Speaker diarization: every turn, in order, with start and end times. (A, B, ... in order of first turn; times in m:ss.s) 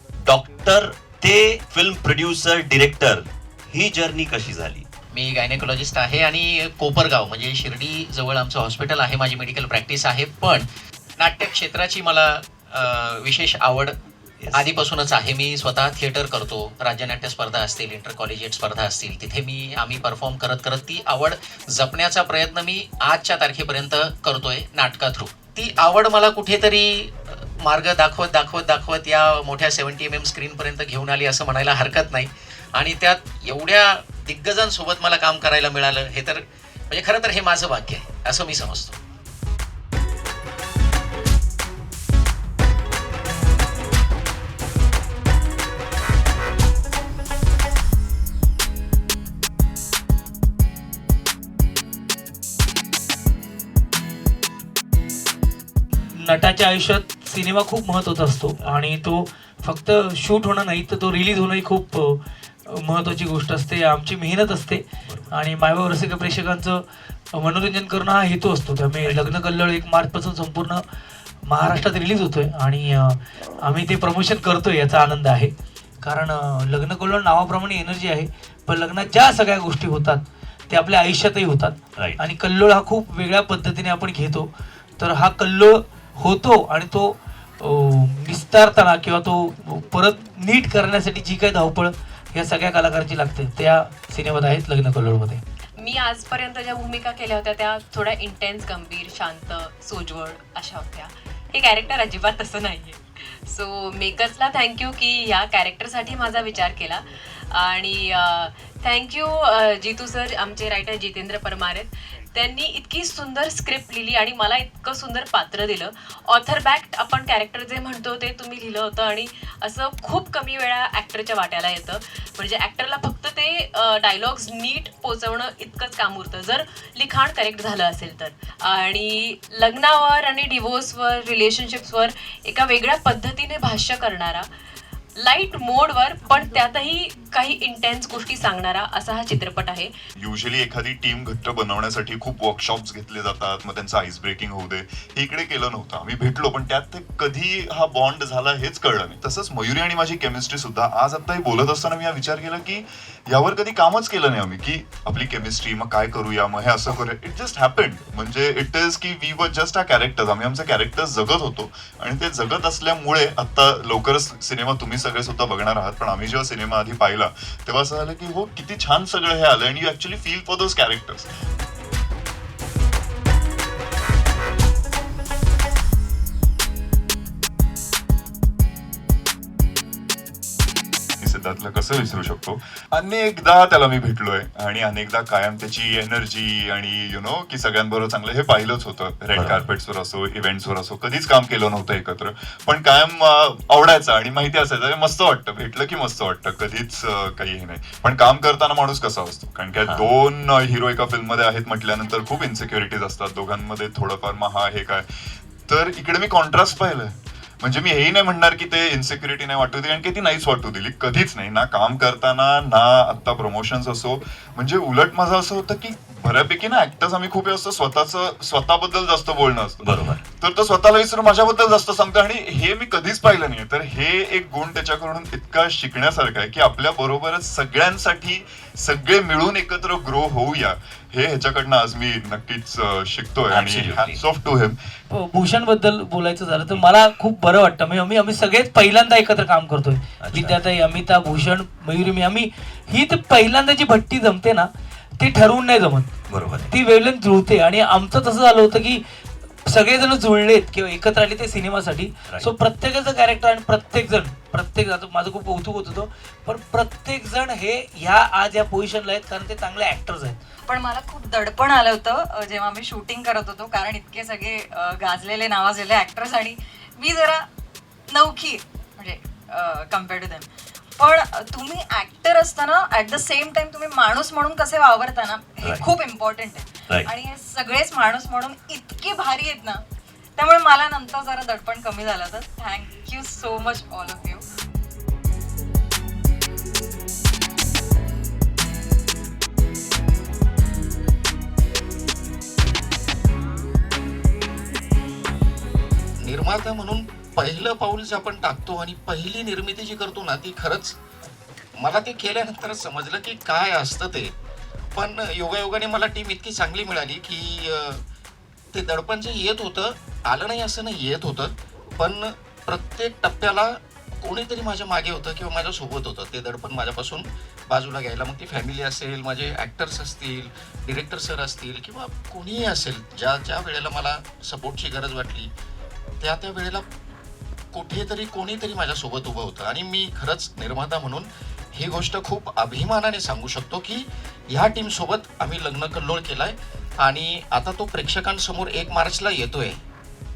0:00.2-0:04.8 A
0:05.1-0:10.6 B
0:11.2-0:13.9 B
0:14.6-0:36.4 B
0:36.9-0:39.0 B
0:56.1-1:10.8 C
1:05.1-1:05.3 A
1:11.4-1:35.4 C
1:35.8-2:14.5 D
2:15.2-2:19.9 D
2:20.2-2:51.3 E
3:01.2-3:25.0 E
3:09.4-3:09.6 A
3:19.8-3:20.1 A
3:25.7-3:54.8 E
3:39.8-3:40.2 A
3:53.5-3:54.2 A
3:55.1-4:06.1 C
4:00.2-4:00.6 A
4:06.3-4:06.7 A
4:06.6-4:09.0 C
4:09.6-4:20.4 C
4:20.7-4:27.5 F
4:28.1-4:39.8 F
4:35.6-4:35.9 A
4:40.4-4:44.4 F
4:56.2-5:01.0 B
5:01.8-5:04.3 B
5:05.0-5:08.0 B
5:08.7-5:25.5 B
5:26.2-5:26.8 B
5:27.7-5:39.8 B